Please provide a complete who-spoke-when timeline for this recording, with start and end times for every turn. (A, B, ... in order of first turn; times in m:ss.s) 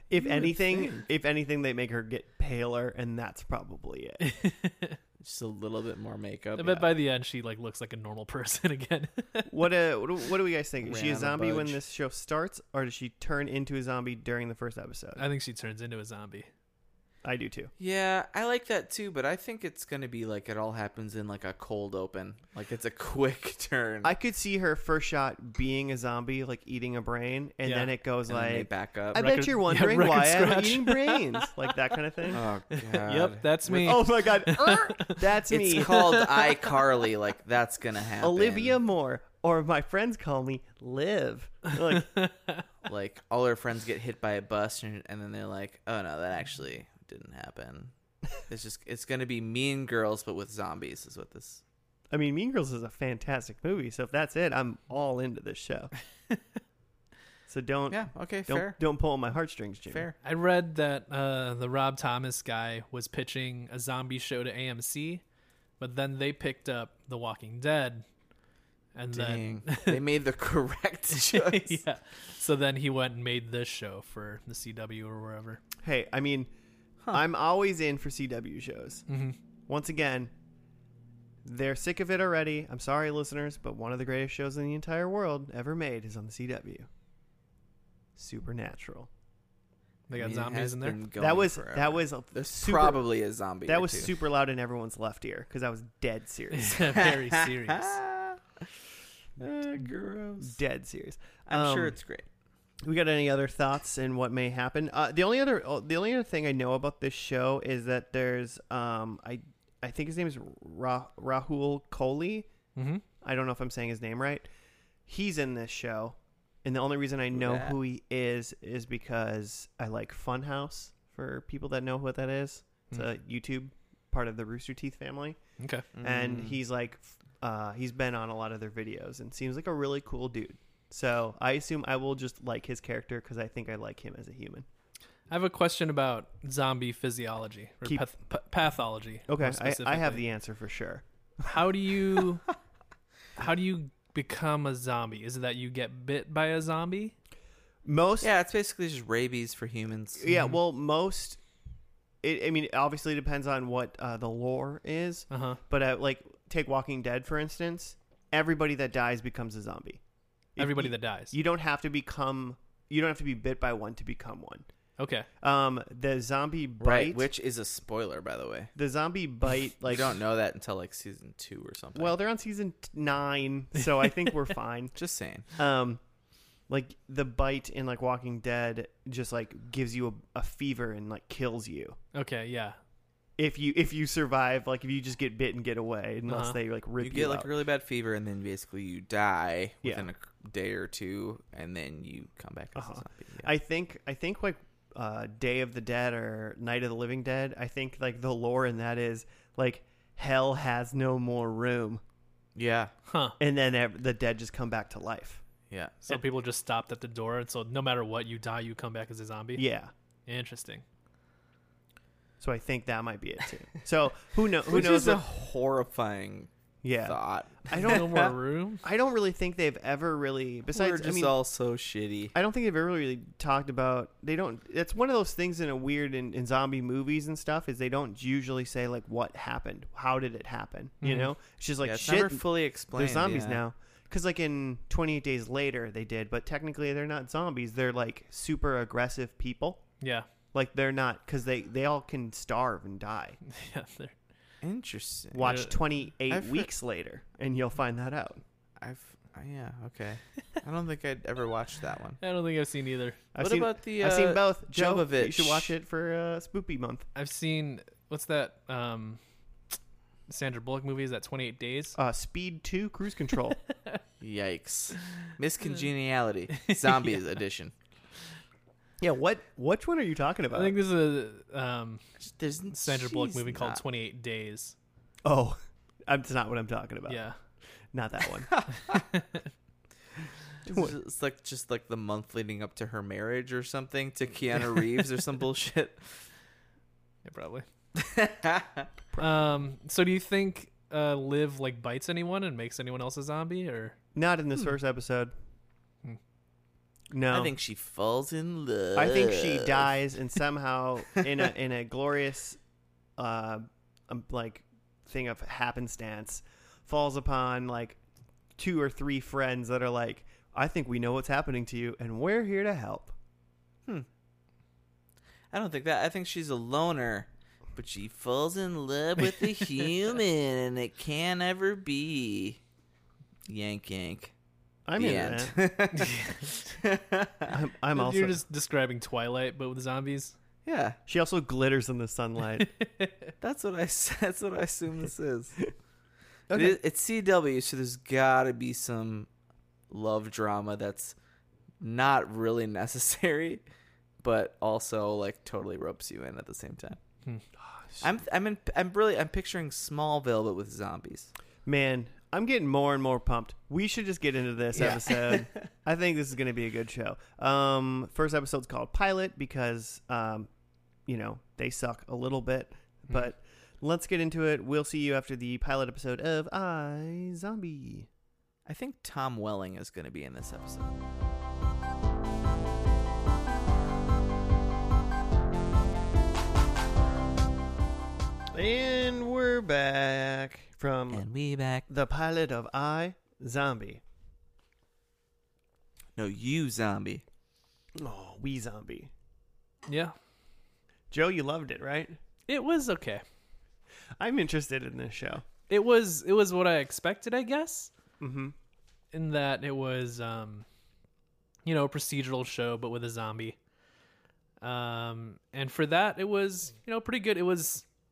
0:00.1-0:04.2 A
0:00.7-0:01.0 B
0:04.2-0:05.0 C
0:05.2-0:06.9 B
0:06.6-0:09.5 C
0:09.5-0:15.2 A
0:10.8-0:11.8 B
0:15.2-0:16.5 C
0:17.2-0:17.7 A
0:17.8-0:24.1 B
0:24.0-0:32.4 A
0:27.6-0:27.9 C
0:28.3-0:29.3 B
0:29.2-0:31.7 C
0:32.3-0:34.0 B
0:32.7-0:35.2 C
0:33.7-0:36.0 A
0:35.5-0:38.8 B
0:35.7-0:36.7 C
0:38.2-0:42.2 A
0:41.9-0:42.6 C
0:42.9-0:47.9 B
0:48.5-0:51.6 B
0:52.1-0:55.9 A
0:57.5-1:00.1 A
0:57.9-0:58.8 B
0:59.9-1:00.2 B
1:00.2-1:05.2 C
1:05.8-1:08.0 C
1:09.0-1:10.0 C
1:09.1-1:11.8 B
1:11.2-1:15.6 C
1:15.8-1:16.5 A
1:17.1-1:19.0 A
1:19.1-1:19.4 C
1:19.7-1:20.3 A
1:21.4-1:26.9 A
1:28.2-1:29.1 A
1:30.1-1:31.0 C
1:30.2-1:34.1 B
1:31.2-1:33.0 A
1:33.7-1:37.1 A
1:36.5-1:38.0 C
1:37.0-1:38.7 B
1:39.4-1:40.6 B
1:40.4-1:42.0 A
1:41.5-1:42.3 B
1:42.8-1:52.5 A
1:52.8-1:53.0 C
1:53.2-1:54.5 A
1:55.1-2:05.4 A
1:57.3-1:57.8 B
2:05.6-2:05.9 C
2:05.9-2:06.6 B
2:06.0-2:14.6 A
2:15.3-2:20.2 C
2:19.3-2:21.5 A
2:21.4-2:22.5 C
2:23.4-2:27.2 C
2:27.8-2:28.3 A
2:28.2-2:30.2 B
2:30.2-2:31.4 A
2:30.3-2:30.6 C
2:32.2-2:40.0 A
2:35.3-2:35.6 C
2:40.6-2:44.6 A
2:40.6-2:41.4 C
2:45.0-2:45.3 C
2:45.4-2:47.3 A
2:46.8-2:48.7 B
2:48.8-2:50.1 A
2:49.9-2:52.2 B
2:52.0-2:55.0 A
2:55.0-2:55.5 B
2:55.6-2:56.0 A
2:56.7-3:02.0 A
3:02.1-3:02.8 C
3:03.4-3:07.5 A
3:06.3-3:06.6 C
3:07.0-3:13.5 B
3:12.8-3:22.0 A
3:22.6-3:22.9 B
3:23.1-3:23.4 C
3:23.4-3:25.4 A
3:25.7-3:26.1 B
3:26.0-3:29.6 C
3:29.6-3:29.9 A
3:30.3-3:30.8 C
3:32.4-3:35.2 A
3:34.7-3:36.5 B
3:36.8-3:38.3 A
3:37.0-3:38.2 B
3:37.7-3:38.8 C
3:38.8-3:41.4 A
3:40.7-3:42.3 B
3:42.3-3:59.8 A
3:51.0-3:51.3 C
3:51.8-3:53.6 B
4:00.0-4:00.3 C
4:00.5-4:03.4 A
4:03.5-4:04.2 C
4:04.6-4:05.7 B
4:05.3-4:08.4 A
4:05.4-4:05.7 C
4:06.3-4:06.7 B
4:08.8-4:12.2 B
4:12.2-4:13.2 C
4:13.4-4:17.1 A
4:13.4-4:15.7 B
4:17.2-4:19.2 C
4:20.3-4:22.0 C
4:22.0-4:23.6 A
4:24.2-4:27.7 B
4:26.6-4:27.2 C
4:29.0-4:30.8 A
4:30.5-4:32.0 C
4:32.2-4:33.8 B
4:32.7-4:34.8 C
4:35.2-4:37.2 A
4:37.1-4:37.4 C
4:37.9-4:38.6 A
4:38.6-4:39.0 B
4:38.8-4:39.5 C
4:40.7-4:46.3 B
4:40.7-4:40.9 A
4:47.2-4:47.7 C
4:48.0-4:48.9 B
4:49.2-4:54.0 C
4:54.2-4:55.3 A
4:57.1-4:57.5 A
4:57.3-4:59.9 B
4:59.0-5:02.6 A
5:03.2-5:08.0 A
5:08.6-5:13.1 A
5:15.5-5:22.6 B
5:23.5-5:24.3 B
5:24.9-5:25.6 A
5:25.0-5:27.5 B
5:26.0-5:26.5 C
5:27.5-5:28.4 A
5:27.9-5:30.4 C
5:30.6-5:31.0 B
5:31.1-5:32.7 A
5:32.6-5:33.3 C
5:33.4-5:35.6 B
5:36.5-5:36.8 A
5:36.5-5:39.3 B
5:39.9-5:41.2 B
5:41.8-5:43.6 B
5:44.2-5:47.0 B
5:48.0-5:51.3 B
5:51.7-6:00.5 A
5:54.7-5:55.7 B
6:01.1-6:08.1 A
6:08.7-6:10.9 B
6:18.5-6:21.3 A
6:21.1-6:21.9 B
6:21.9-6:24.0 A
6:26.2-6:27.2 B
6:28.0-6:29.1 A
6:29.9-6:30.2 C
6:31.1-6:32.2 A
6:32.5-6:33.2 C
6:34.2-6:35.4 A
6:35.7-6:37.9 C
6:38.2-6:38.6 A
6:39.1-6:40.7 C
6:41.6-6:43.6 C
6:44.6-6:47.8 C